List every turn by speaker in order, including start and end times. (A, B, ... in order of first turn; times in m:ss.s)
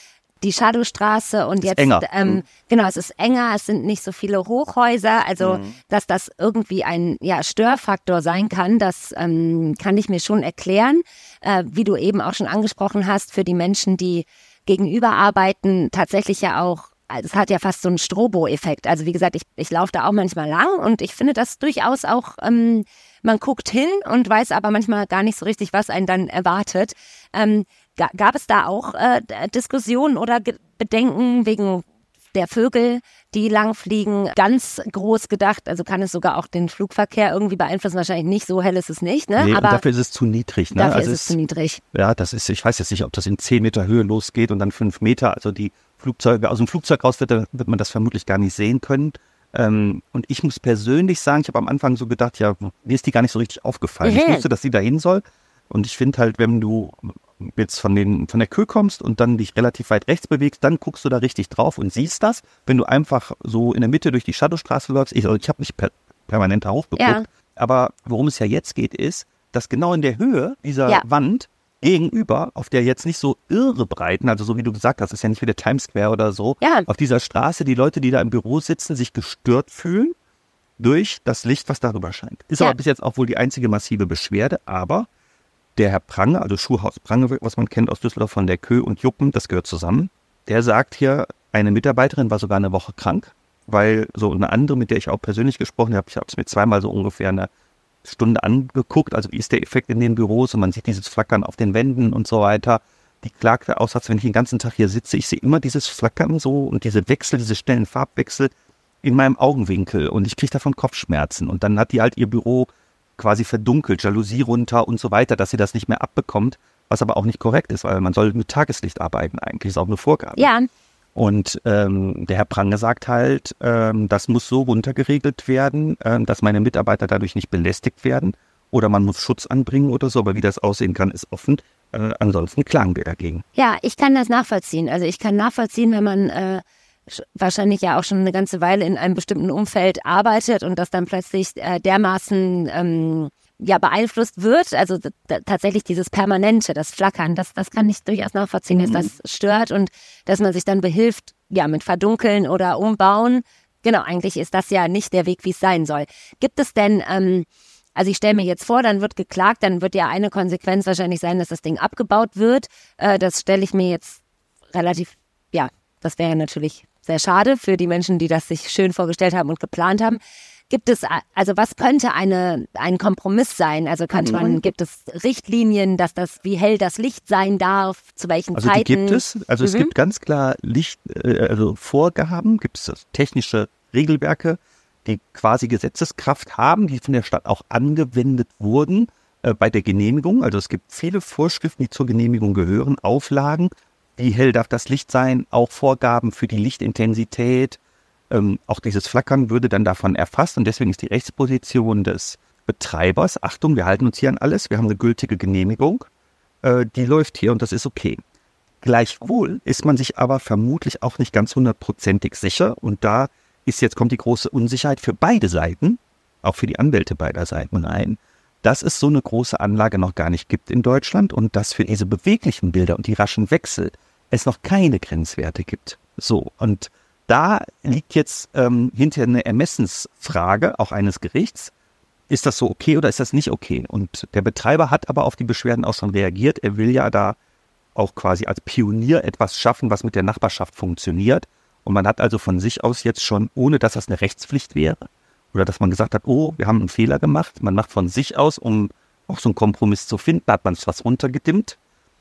0:00.4-0:39.8 A
0:01.6-0:02.4 B
0:05.4-0:05.8 B
0:39.4-0:41.4 B
0:40.7-0:41.8 A
0:41.9-1:20.1 B
0:54.0-0:54.4 A
1:07.0-1:07.2 A
1:16.6-1:16.9 A
1:20.8-1:25.1 B
1:25.8-1:37.5 B
1:38.0-1:48.5 B
1:49.0-2:00.5 B
2:00.4-2:00.7 A
2:01.2-2:13.4 B
2:13.6-2:44.2 A
2:44.7-2:59.9 A
2:54.2-2:54.6 B
2:58.5-3:17.8 B
3:18.3-3:26.1 B
3:26.6-3:28.2 B
3:28.8-3:51.7 B
3:52.3-3:57.4 B
3:57.9-4:11.8 B